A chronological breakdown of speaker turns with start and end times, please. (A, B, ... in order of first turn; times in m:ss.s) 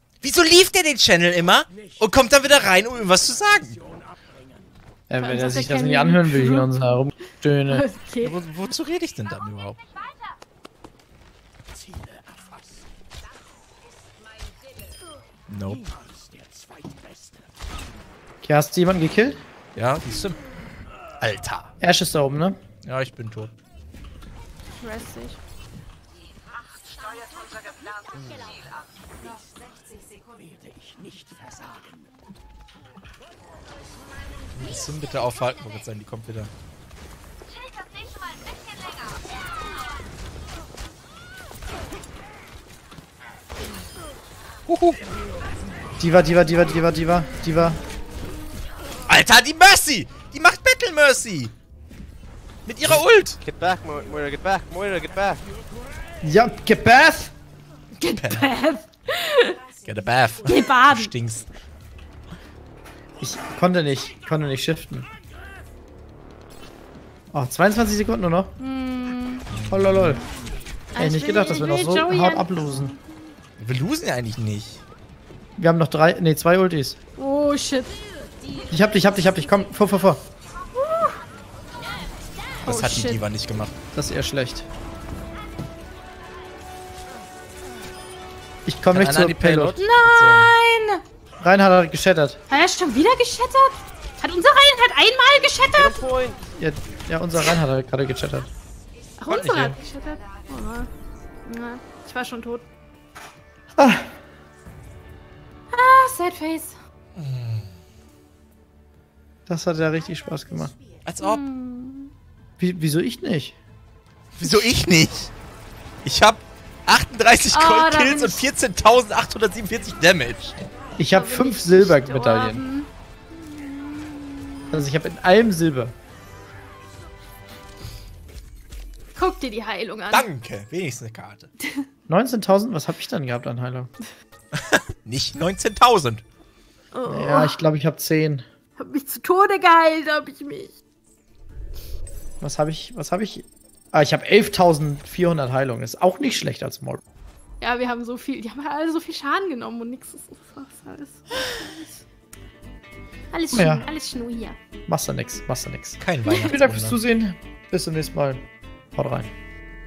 0:00.2-0:03.8 A
0:05.1-0:07.8 B
0:05.2-0:06.7 C
0:07.7-0:08.4 C
0:08.2-0:09.8 A
0:15.5-0:15.9 A
0:18.4-0:19.4 B
0:19.8-0:20.4 A
0:21.2-0:21.7 A
0:21.8-0:22.6 B
0:22.8-0:23.5 A
0:24.8-0:25.4 C
0:34.6-0:36.5 A
0:44.7-0:45.0 A
0:46.0-0:47.8 B
0:49.1-0:51.5 A
0:52.7-0:53.4 A
0:53.4-0:55.4 D
0:56.2-0:57.3 B
0:58.0-0:59.6 C
0:58.1-0:58.5 A
0:59.8-1:01.5 A
1:00.4-1:01.1 C
1:03.2-1:05.1 B
1:07.3-1:08.5 B
1:08.6-1:09.5 C
1:09.5-1:10.3 A
1:09.7-1:10.2 B
1:10.9-1:13.0 C
1:11.0-1:13.0 B
1:13.6-1:14.8 A
1:15.6-1:17.0 B
1:17.2-1:17.9 C
1:18.7-1:20.2 B
1:20.8-1:21.2 C
1:22.6-1:23.8 A
1:22.6-1:23.2 C
1:23.9-1:24.7 B
1:28.7-1:29.8 B
1:28.9-1:30.5 A
1:29.8-1:31.0 C
1:31.4-1:32.4 B
1:32.5-1:36.1 C
1:35.7-1:36.4 D
1:36.6-1:38.5 B
1:39.2-1:40.9 C
1:39.3-1:39.8 A
1:41.4-1:42.6 C
1:43.8-1:44.1 B
1:45.7-1:46.8 C
1:47.2-1:47.7 A
1:49.5-1:50.8 B
1:51.1-1:51.4 A
1:51.2-1:52.1 C
1:52.6-1:53.6 B
1:54.4-1:55.3 A
1:56.0-2:00.6 A
1:57.5-1:58.5 C
2:01.0-2:02.6 B
2:01.1-2:04.8 C
2:04.7-2:06.0 B
2:09.2-2:10.3 C
2:10.1-2:11.5 A
2:12.1-2:13.9 B
2:14.6-2:16.2 A
2:16.9-2:17.6 C
2:17.1-2:18.4 B
2:18.8-2:20.8 C
2:22.4-2:27.0 B
2:27.6-2:31.9 C
2:33.3-2:34.6 C
2:33.5-2:33.9 B
2:34.9-2:38.4 B
2:36.0-2:37.0 A
2:36.3-2:36.6 C
2:39.0-2:39.3 B